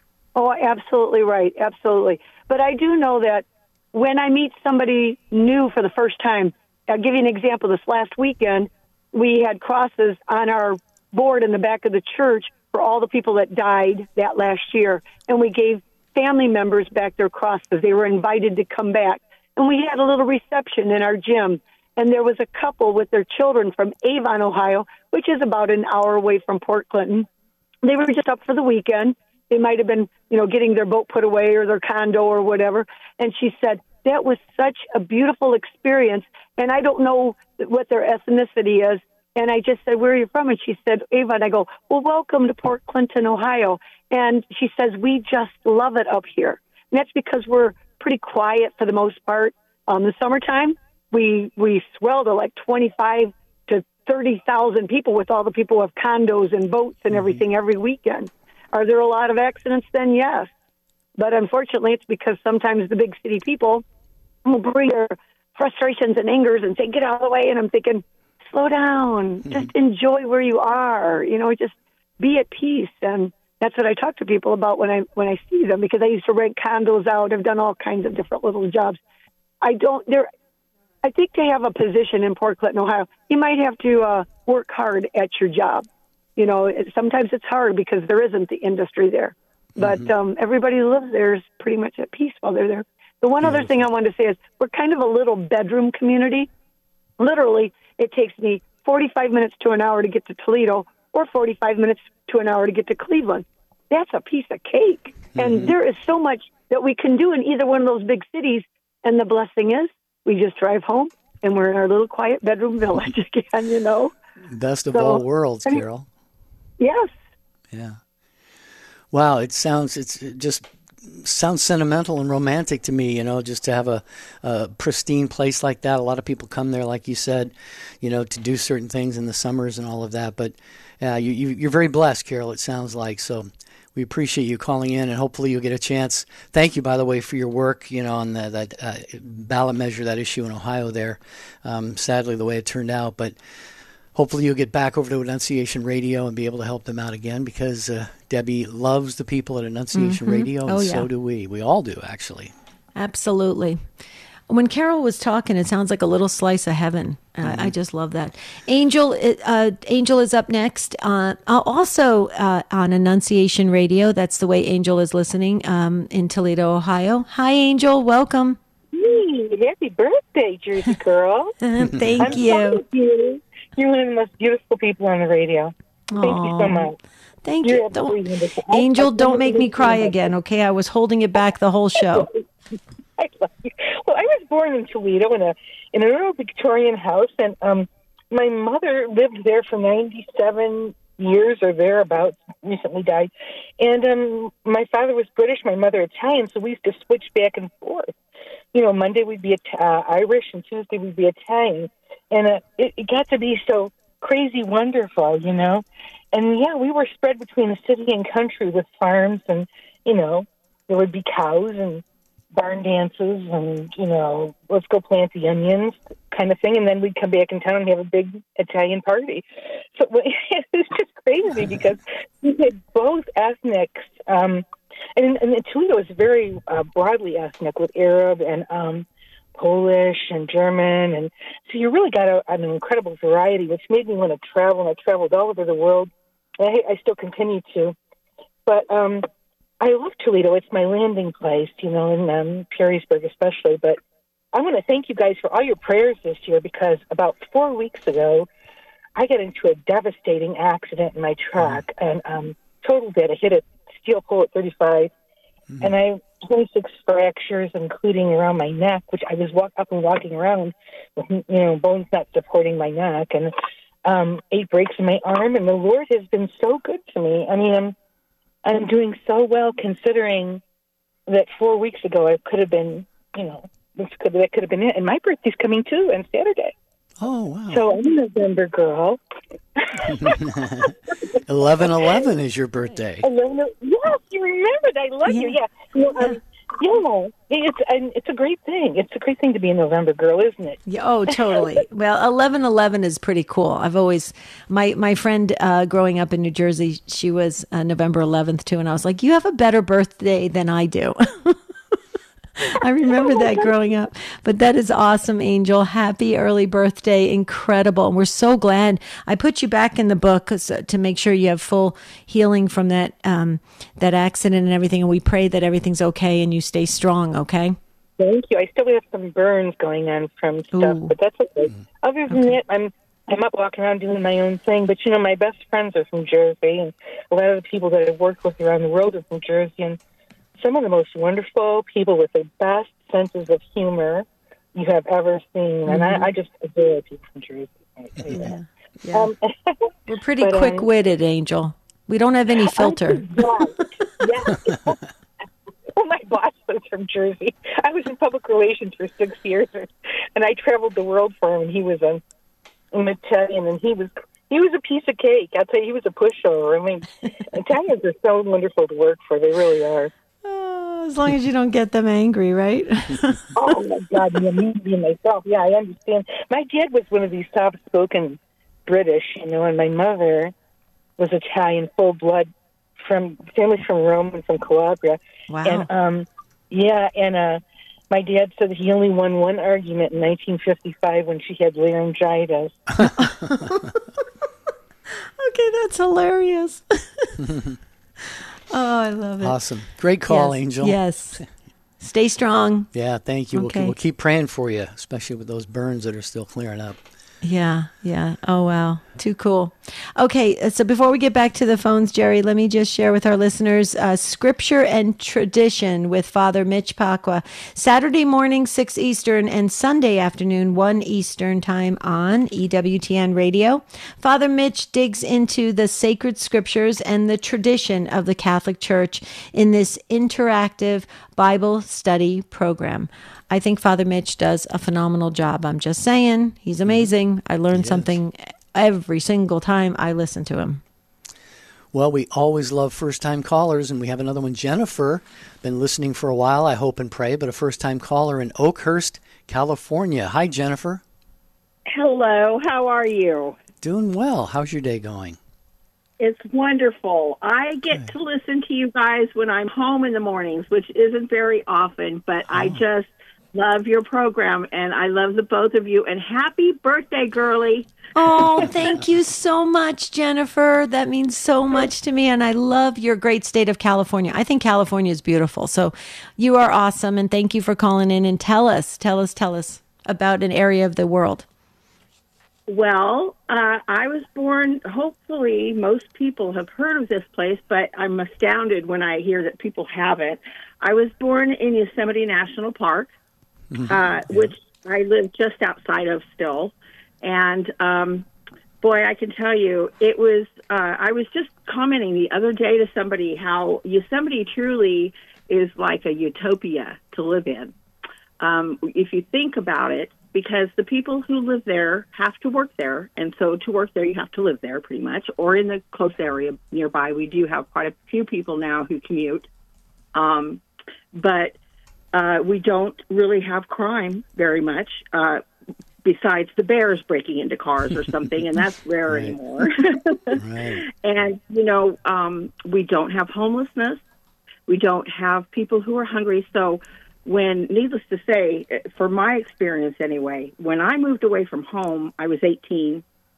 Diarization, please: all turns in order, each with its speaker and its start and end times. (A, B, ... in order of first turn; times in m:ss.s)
0:00.3-0:27.3 A
0:27.8-1:00.5 A
0:57.1-0:57.4 B
1:01.2-1:03.8 A
1:04.4-1:19.0 A
1:19.6-1:20.3 A
1:21.0-1:36.5 A
1:29.8-1:30.1 B
1:33.4-1:33.8 B
1:37.2-1:54.1 A
1:45.4-1:45.7 B
1:54.5-1:56.1 B
1:54.9-1:55.8 A
1:56.8-1:57.1 A
1:57.7-1:58.0 B
1:59.1-2:23.4 B
2:24.1-2:32.5 B
2:29.9-2:31.1 C
2:33.0-2:33.8 C
2:34.5-2:48.6 C
2:37.4-2:37.7 B
2:48.9-2:51.5 D
2:51.6-2:52.8 C
2:51.9-2:52.4 B
2:52.2-2:57.0 D
2:56.1-2:56.9 C
2:57.4-2:58.2 C
2:57.6-3:00.3 D
2:58.7-3:02.3 C
3:02.0-3:02.3 D
3:03.2-3:18.1 D
3:18.7-3:44.6 D
3:45.2-3:58.0 D
3:58.6-3:59.3 D
3:59.8-4:04.0 D
4:04.5-4:08.5 D
4:09.2-4:15.1 D
4:11.6-4:11.8 B
4:15.8-4:23.5 D
4:24.0-4:27.9 D
4:28.6-4:30.6 D
4:31.3-4:36.7 D
4:37.2-4:37.9 B
4:37.7-4:39.2 D
4:39.8-4:40.4 D
4:40.2-4:40.9 B
4:41.4-4:43.3 B
4:43.2-4:50.8 D
4:45.2-4:45.6 C
4:50.9-5:01.6 C
4:51.4-4:51.8 D
5:02.6-5:17.8 C
5:18.2-5:30.0 D
5:20.7-5:21.1 C
5:22.3-5:22.6 C
5:30.6-5:38.6 D
5:35.9-5:36.3 C
5:38.3-5:39.3 C
5:39.1-5:39.9 D
5:40.1-5:43.3 C
5:40.4-5:40.9 D
5:42.7-5:45.0 D
5:46.0-5:52.2 D
5:52.9-6:00.1 D
6:00.4-6:03.5 C
6:03.5-6:10.5 D
6:11.2-6:22.8 D
6:15.5-6:15.9 C
6:23.2-6:23.9 C
6:25.4-6:27.4 C
6:27.4-6:27.8 B
6:28.7-6:29.6 C
6:29.4-6:31.4 B
6:30.3-6:31.4 C
6:32.0-6:32.9 C
6:32.9-6:37.0 B
6:33.5-6:33.9 C
6:37.4-7:10.8 C
7:07.7-7:08.1 B
7:11.9-7:21.0 B
7:21.9-7:23.6 E
7:23.8-7:25.4 B
7:26.2-7:37.9 E
7:32.5-7:32.8 B
7:38.2-7:51.4 C
7:52.7-8:03.1 E
8:03.7-8:04.5 B
8:03.8-8:08.3 E
8:08.8-8:17.7 E
8:18.4-8:29.5 E
8:30.1-8:30.6 E
8:31.2-8:31.6 E
8:32.1-8:35.4 E
8:36.0-8:40.4 E
8:39.1-8:39.4 B
8:40.3-8:40.8 B
8:41.0-8:44.0 E
8:44.7-8:53.0 E